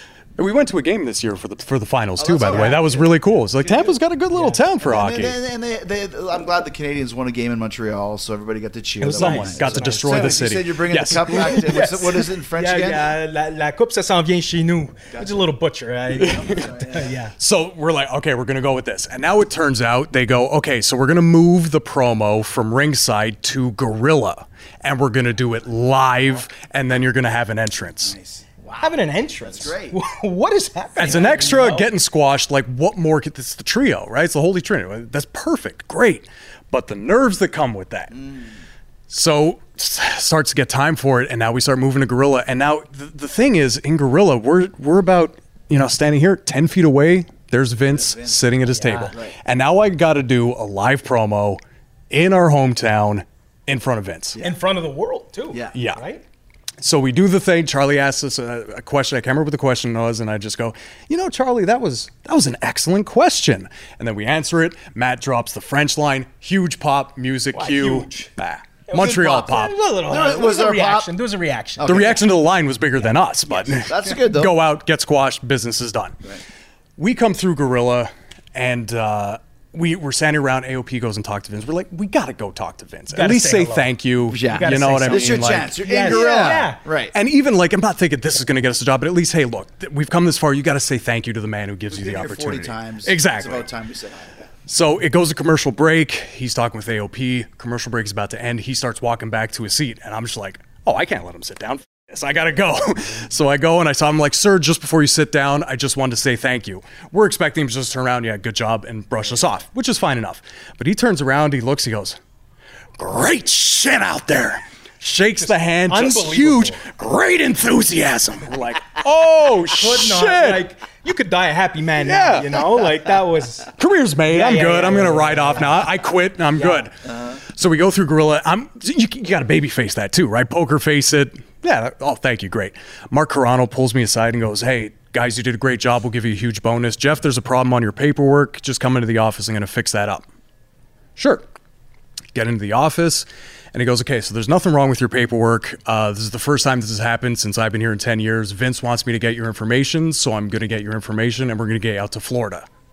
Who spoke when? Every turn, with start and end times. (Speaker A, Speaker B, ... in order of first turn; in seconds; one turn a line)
Speaker A: 0.4-5.4
Speaker B: 2.2-3.1
Speaker C: 2.5-2.9
Speaker B: 3.6-4.0
Speaker C: 4.3-4.6
Speaker B: 4.8-13.1
Speaker C: 9.0-10.5
Speaker A: 9.1-11.8
Speaker C: 11.2-17.4
Speaker B: 15.1-15.4
Speaker A: 16.2-16.6
Speaker B: 16.2-17.1
Speaker A: 17.4-28.2
Speaker B: 28.1-30.0
Speaker C: 28.8-31.9
Speaker A: 31.0-38.1
Speaker B: 38.1-38.6
Speaker A: 39.1-51.6
Speaker B: 48.0-48.4
Speaker C: 48.7-49.1
Speaker A: 52.1-54.4
Speaker C: 54.4-56.2
Speaker A: 55.7-56.0
Speaker A: 56.8-69.8
Speaker C: 67.5-68.3
Speaker C: 68.9-72.2
Speaker B: 68.9-71.1
Speaker B: 71.8-72.2
Speaker A: 71.9-76.3
Speaker C: 73.0-73.7
Speaker B: 73.7-74.5
Speaker A: 77.0-93.7
Speaker C: 83.1-83.9
Speaker B: 84.3-87.1
Speaker C: 84.4-86.8
Speaker B: 91.9-94.4
Speaker A: 94.7-112.2
Speaker A: 113.0-120.7
Speaker C: 115.4-116.9
Speaker C: 119.7-123.7
Speaker A: 122.0-122.7
Speaker A: 123.8-140.2
Speaker C: 124.3-125.9
Speaker C: 126.6-126.9
Speaker A: 141.2-141.5
Speaker A: 142.3-152.7